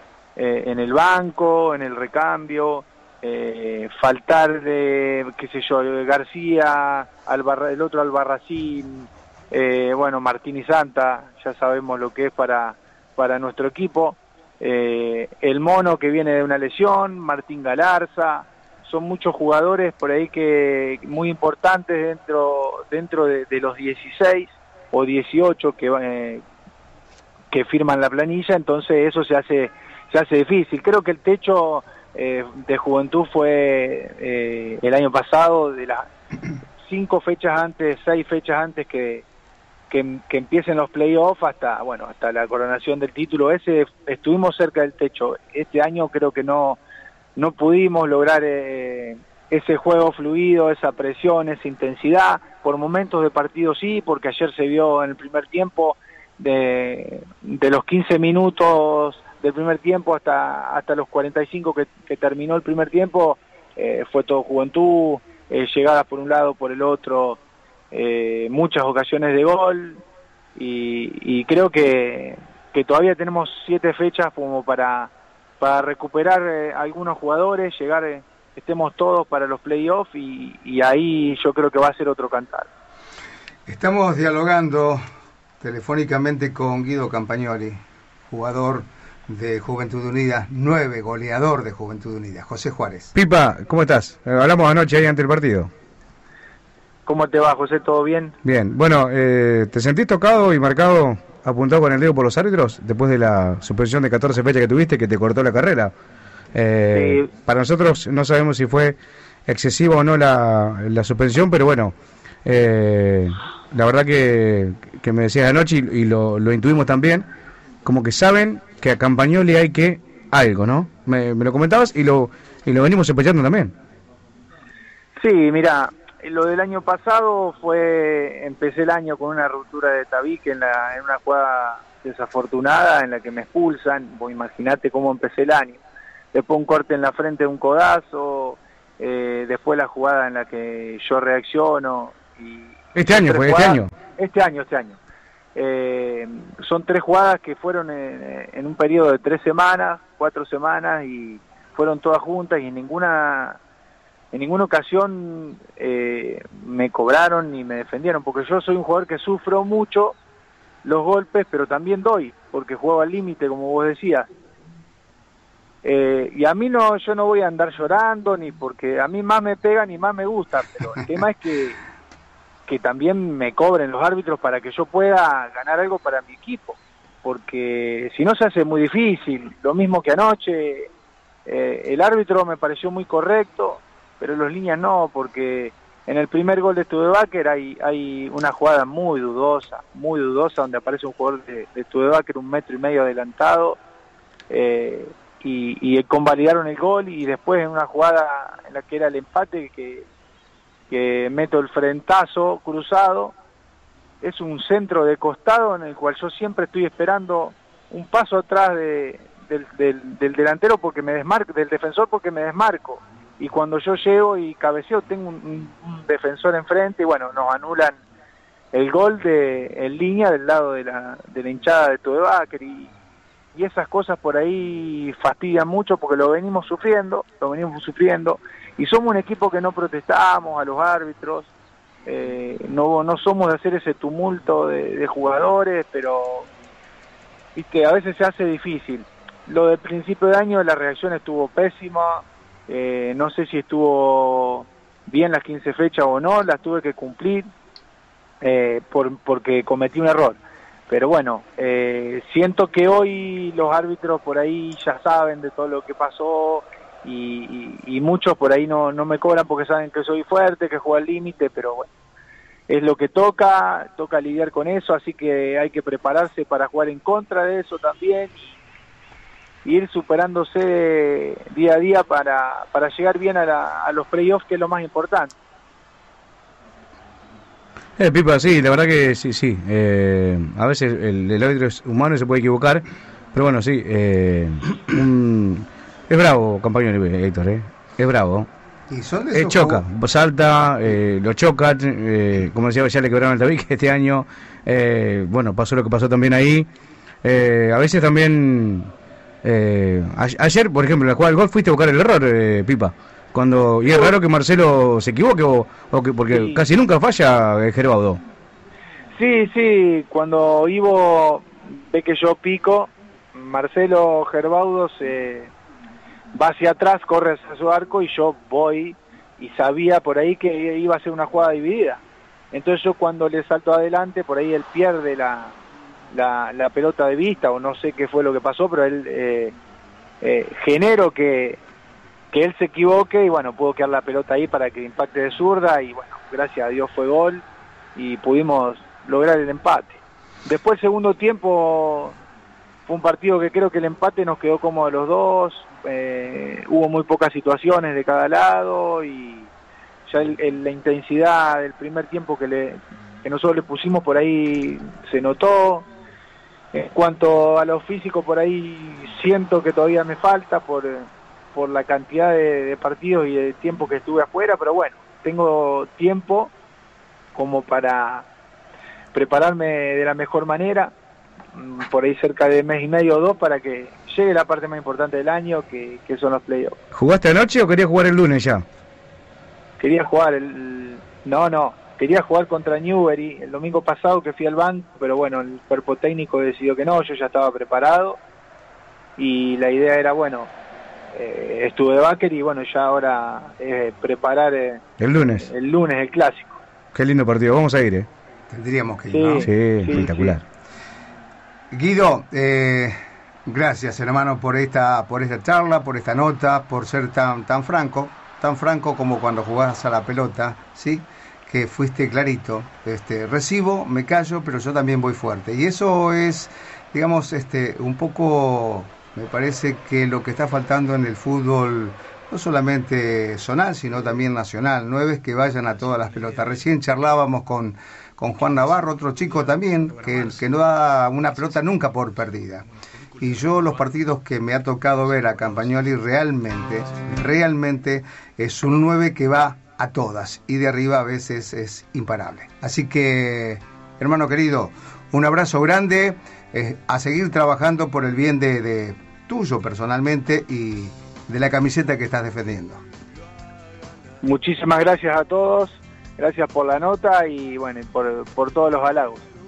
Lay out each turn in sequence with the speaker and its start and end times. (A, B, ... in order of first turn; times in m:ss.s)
0:00.4-0:26.4 A
0:27.5-0:36.1 A
0:36.8-0:39.2 A
0:39.9-0:46.8 A
0:47.4-1:07.4 A
1:07.9-1:10.0 A
1:10.5-1:22.7 A
1:23.7-1:25.0 B
1:25.6-1:27.8 B
1:28.3-1:33.1 B
1:33.1-1:35.7 C
1:37.0-1:38.3 A
1:38.4-1:45.9 C
1:46.5-1:57.3 C
1:46.9-1:47.3 A
1:57.8-2:03.7 C
2:05.2-2:15.8 A
2:16.3-2:25.0 A
2:22.9-2:23.9 C
2:25.5-2:33.6 A
2:34.3-2:40.2 A
2:40.8-2:44.3 A
2:45.8-2:51.8 A
2:52.7-3:00.9 A
3:01.4-3:13.8 A
3:14.5-3:20.1 A
3:20.9-3:23.3 A
3:24.2-3:38.0 A
3:38.7-3:42.9 A
3:43.5-3:51.5 A
3:52.0-3:56.5 A
3:57.6-4:07.5 A
4:08.4-4:21.9 A
4:22.7-4:28.6 A
4:29.6-4:35.3 A
4:38.0-4:48.5 C
4:48.9-4:49.8 B
4:49.3-4:56.7 C
4:57.2-4:58.9 C
4:59.4-5:08.2 C
5:03.8-5:04.1 A
5:06.3-5:06.6 A
5:09.1-5:15.5 A
5:16.3-5:25.6 A
5:26.1-5:29.5 A
5:30.2-5:31.6 A
5:32.3-5:42.2 A
5:42.8-5:49.5 A
5:50.1-5:55.9 A
5:56.7-6:06.5 A
6:07.3-6:08.2 A
6:09.1-6:10.9 A
6:11.5-6:16.8 A
6:16.9-6:18.6 C
6:19.8-6:28.2 A
6:29.2-6:30.5 A
6:31.1-6:36.6 A
6:35.0-6:35.5 C
6:36.9-6:38.1 C
6:38.5-6:39.5 B
6:39.1-6:40.4 A
6:39.4-6:40.4 C
6:41.7-7:12.6 B
7:13.2-7:32.8 B
7:34.2-7:39.2 A